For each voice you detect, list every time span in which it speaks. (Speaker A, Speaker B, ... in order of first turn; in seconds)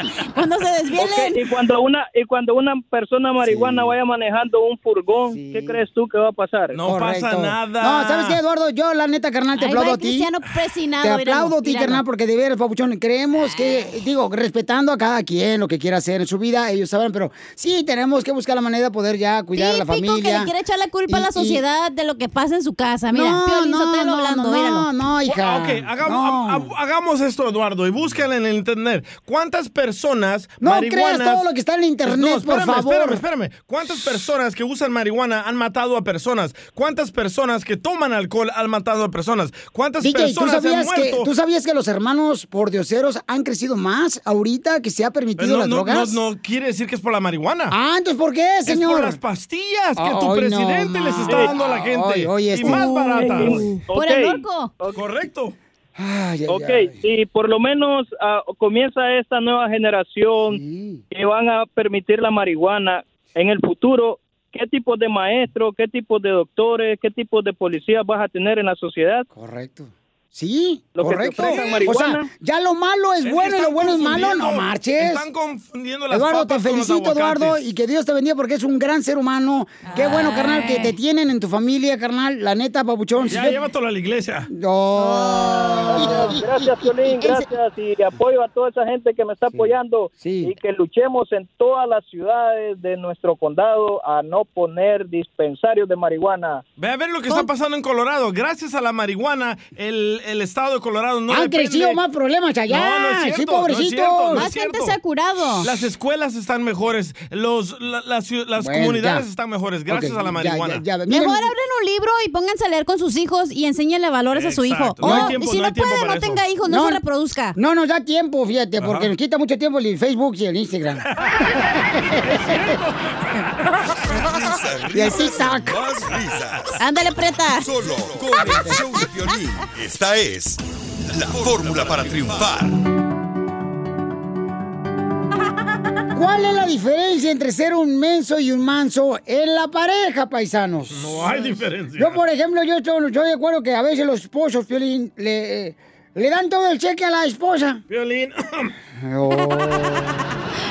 Speaker A: 0.3-1.4, 9.6-12.0, 13.4-13.9, 19.5-24.9, 52.6-54.7, 79.9-80.9, 84.9-86.4, 104.3-105.7, 111.0-117.6, 126.8-127.7
Speaker B: 0.9-6.8, 51.3-51.6, 53.3-55.0, 56.5-60.6, 61.1-69.2, 71.0-72.2, 85.9-96.6
Speaker C: 3.4-3.9, 5.3-5.8, 6.8-10.3, 11.0-20.5, 21.1-21.6, 23.1-26.7, 30.6-33.2, 40.0-46.2, 47.7-49.2, 50.0-53.7, 56.0-57.0, 60.5-61.0, 69.3-75.2, 76.1-83.6, 84.5-86.4, 89.5-90.5, 101.3-104.5, 108.6-109.2, 109.9-111.5, 115.0-115.4, 116.6-117.0, 117.5-121.1, 121.6-122.8, 124.9-125.8, 128.4-128.8, 136.1-147.8, 149.0-150.4
Speaker D: 6.7-8.4, 25.2-31.4, 32.0-41.3, 45.4-47.7, 48.6-53.6, 54.9-55.5, 73.2-77.6, 83.2-84.5, 96.8-102.0, 102.7-105.0, 105.6-110.9, 114.3-116.5, 118.8-119.1, 122.2-124.5, 140.9-142.2, 147.9-148.7
Speaker E: 124.4-126.7, 127.6-132.8